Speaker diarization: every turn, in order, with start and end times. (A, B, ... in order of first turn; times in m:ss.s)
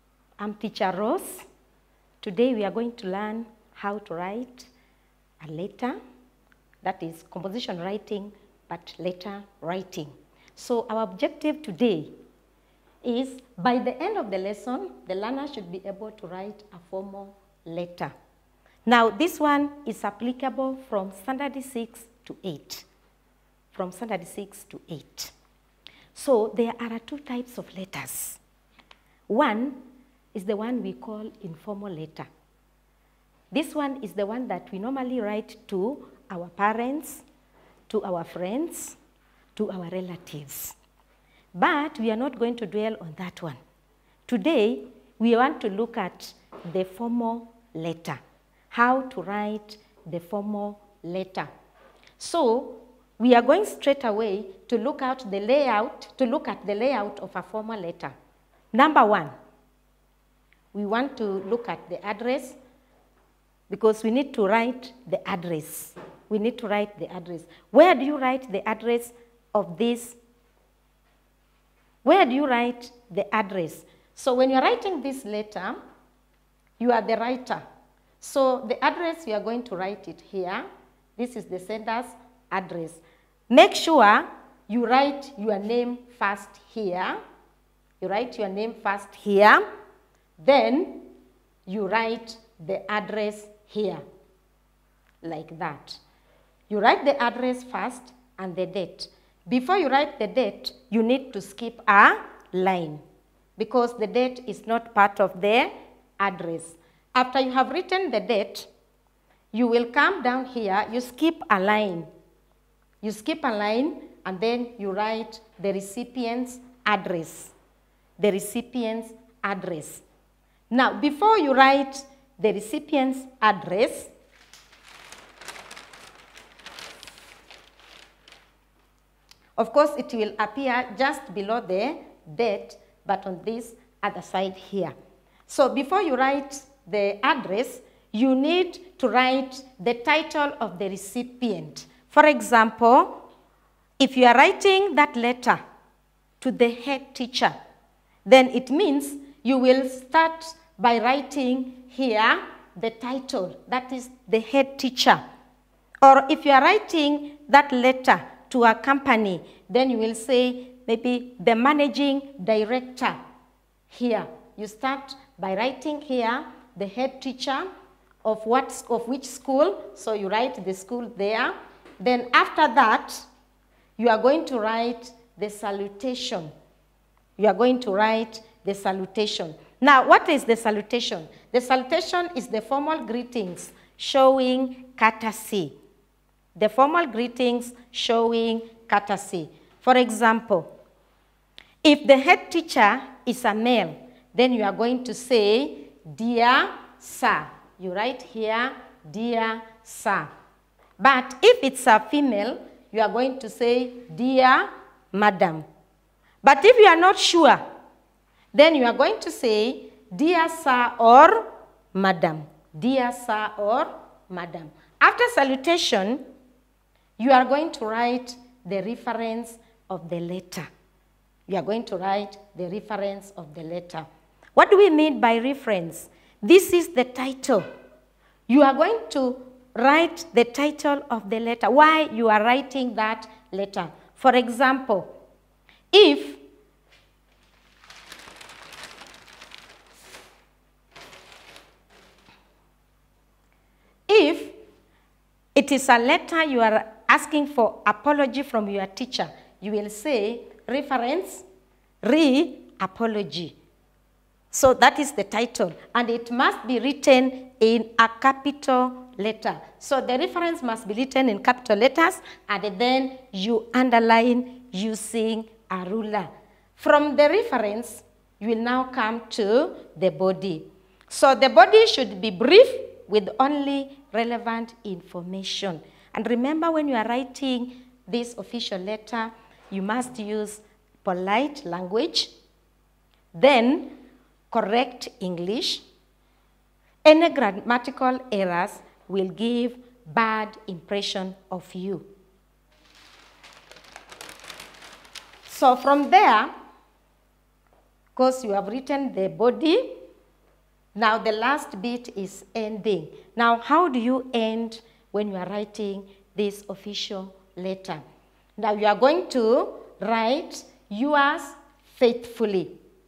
0:00.4-0:01.4 A
0:02.2-0:04.7 A
0:05.4-0:06.0 A
0:06.8-0:12.1 A
0:13.0-0:18.1 A
0:18.8-0:22.8 A
0:23.7-0:25.3 A
0:26.1-0:28.4 A
0:29.3-0:29.8 A
0:30.3-0:32.3 A
0:33.5-0:37.2 A
0:37.9-0:39.0 A
0:39.6-0:40.8 A
0:41.5-0:43.6 A
0:44.3-0:48.2 A
0:48.7-0:51.5 A
0:52.2-0:58.1 A
0:58.7-0:59.3 A
1:00.7-1:02.6 A
1:03.7-1:10.2 A
1:12.0-1:15.8 A
1:16.8-1:17.6 A
1:18.2-1:20.6 A
1:21.2-1:27.2 A
1:28.0-1:29.6 A
1:30.4-1:31.1 A
1:31.6-1:34.0 A
1:35.2-1:36.0 A
1:36.7-1:43.0 A
1:43.6-1:48.7 A
1:49.5-1:52.1 A
1:53.0-1:57.5 A
1:58.2-2:00.0 A
2:00.7-2:04.1 A
2:09.6-2:14.9 A
2:15.5-2:23.2 A
2:24.0-2:25.6 A
2:26.4-2:27.5 A
2:28.2-2:35.2 A
2:36.0-2:43.2 A
2:43.9-2:47.7 A
2:48.2-2:53.2 A
2:54.0-2:56.5 A
2:57.4-3:05.8 A
3:06.5-3:10.7 A
3:11.8-3:20.3 A
3:21.0-3:25.6 A
3:26.4-3:27.6 A
3:28.5-3:36.2 A
3:37.2-3:40.7 A
3:41.5-3:47.6 A
3:48.5-3:55.1 A
3:55.9-3:56.4 A
4:04.1-4:04.5 A
4:05.5-4:11.4 A
4:12.0-4:13.6 A
4:14.5-4:42.3 A
4:43.3-4:43.9 A
4:44.5-4:45.8 A
4:47.0-4:52.1 A
4:55.5-4:56.5 A
4:58.2-5:00.0 A
5:00.9-5:08.0 A
5:08.6-5:12.8 A